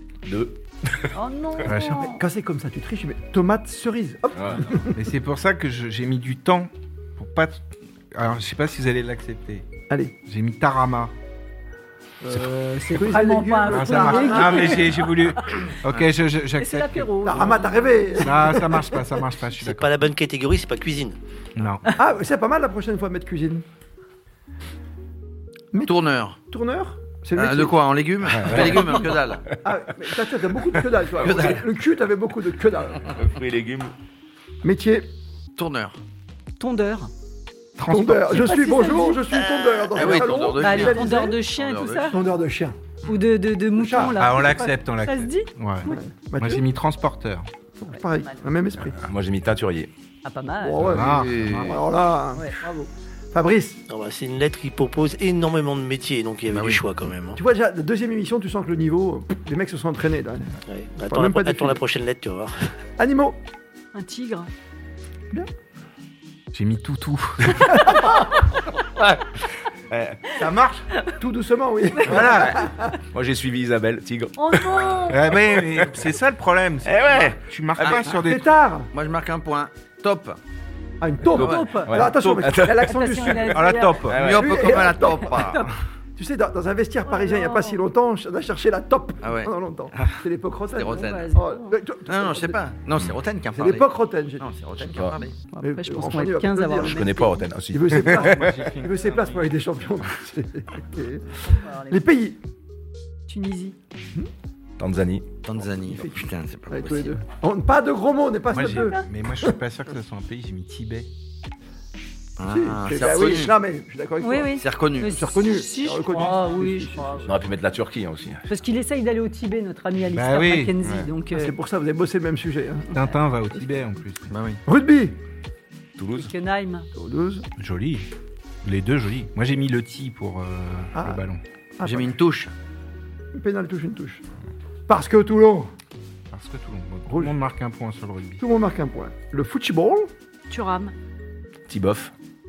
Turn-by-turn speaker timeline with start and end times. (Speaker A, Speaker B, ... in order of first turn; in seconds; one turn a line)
Speaker A: 0.2-1.1
Speaker B: 1.1-2.2
Speaker C: 1.6-2.0
Speaker D: 1.7-5.0
Speaker A: 4.3-4.8
Speaker C: 4.9-9.7
Speaker D: 9.9-10.1
Speaker C: 10.2-11.1
Speaker D: 12.2-14.9
Speaker B: 12.3-15.7
Speaker C: 13.7-17.5
Speaker B: 16.6-18.6
Speaker D: 17.2-19.1
Speaker C: 18.2-19.9
Speaker E: 19.6-21.2
Speaker C: 21.6-21.9
Speaker D: 21.9-23.6
Speaker F: 25.8-26.4
Speaker D: 26.5-27.8
Speaker F: 27.3-29.5
Speaker A: 28.4-28.8
Speaker D: 28.6-29.0
Speaker D: 29.6-33.2
Speaker A: 30.7-31.5
Speaker F: 31.3-31.5
Speaker A: 33.1-33.9
Speaker D: 34.6-35.1
Speaker F: 35.5-36.0
Speaker B: 36.6-37.1
Speaker C: 37.8-38.5
Speaker D: 37.9-41.4
Speaker B: 38.3-39.3
Speaker E: 39.3-40.2
Speaker F: 39.9-42.1
Speaker B: 40.5-42.2
Speaker D: 42.1-42.8
Speaker B: 43.0-46.0
Speaker D: 43.8-44.3
Speaker C: 44.2-47.5
Speaker D: 45.8-46.6
Speaker D: 47.8-49.0
Speaker B: 47.9-48.5
Speaker A: 48.9-49.9
Speaker B: 50.2-50.8
Speaker D: 50.6-52.7
Speaker C: 50.8-51.8
Speaker F: 50.9-51.8
Speaker B: 52.3-52.9
Speaker D: 53.3-53.8
Speaker E: 53.9-57.4
Speaker F: 56.5-57.1
Speaker D: 57.4-61.8
Speaker E: 60.7-62.7
Speaker D: 63.0-63.4
Speaker B: 63.9-64.5
Speaker C: 66.5-67.9
Speaker D: 67.7-68.0
Speaker A: 68.9-70.4
Speaker C: 70.4-70.9
Speaker D: 71.2-73.0
Speaker C: 72.0-72.6
Speaker A: 73.1-76.0
Speaker B: 74.4-75.3
Speaker C: 75.1-78.5
Speaker A: 76.8-77.4
Speaker F: 77.8-78.1
Speaker D: 78.1-78.9
Speaker F: 78.9-80.4
Speaker D: 81.0-83.6
Speaker B: 81.3-82.0
Speaker A: 81.4-83.3
Speaker B: 82.8-84.1
Speaker C: 83.5-84.2
Speaker A: 84.0-84.9
Speaker F: 84.2-85.7
Speaker D: 84.3-85.5
Speaker B: 85.2-85.7
Speaker D: 86.2-92.6
Speaker B: 87.0-87.8
Speaker F: 89.2-90.2
Speaker F: 90.7-91.3
Speaker B: 90.9-91.7
Speaker F: 92.1-95.4
Speaker D: 93.5-94.5
Speaker A: 94.9-95.2
Speaker B: 95.5-97.5
Speaker D: 95.6-97.1
Speaker A: 96.8-98.6
Speaker D: 97.7-102.4
Speaker C: 97.9-99.6
Speaker B: 101.4-102.0
Speaker B: 103.3-103.8
Speaker A: 104.8-105.4
Speaker F: 105.4-107.1
Speaker D: 105.8-109.5
Speaker C: 108.5-111.1
Speaker B: 108.6-109.0
Speaker F: 112.4-113.5
Speaker D: 112.5-117.3
Speaker B: 114.2-117.3
Speaker F: 114.5-115.2
Speaker A: 117.2-118.5
Speaker B: 118.5-121.5
Speaker C: 120.1-120.7
Speaker A: 120.8-121.1
Speaker D: 121.3-122.9
Speaker C: 122.9-124.3
Speaker F: 124.3-124.6
Speaker D: 124.7-125.2
Speaker A: 126.0-126.3
Speaker B: 126.2-126.9
Speaker D: 126.9-127.5
Speaker C: 127.6-128.1
Speaker C: 128.6-131.4
Speaker D: 130.9-131.2
Speaker D: 131.8-132.2
Speaker F: 131.8-132.5
Speaker D: 133.3-134.2
Speaker D: 134.9-135.7
Speaker C: 136.3-138.4
Speaker D: 137.1-137.3
Speaker D: 138.4-140.1
Speaker B: 140.5-140.9
Speaker A: 141.7-142.1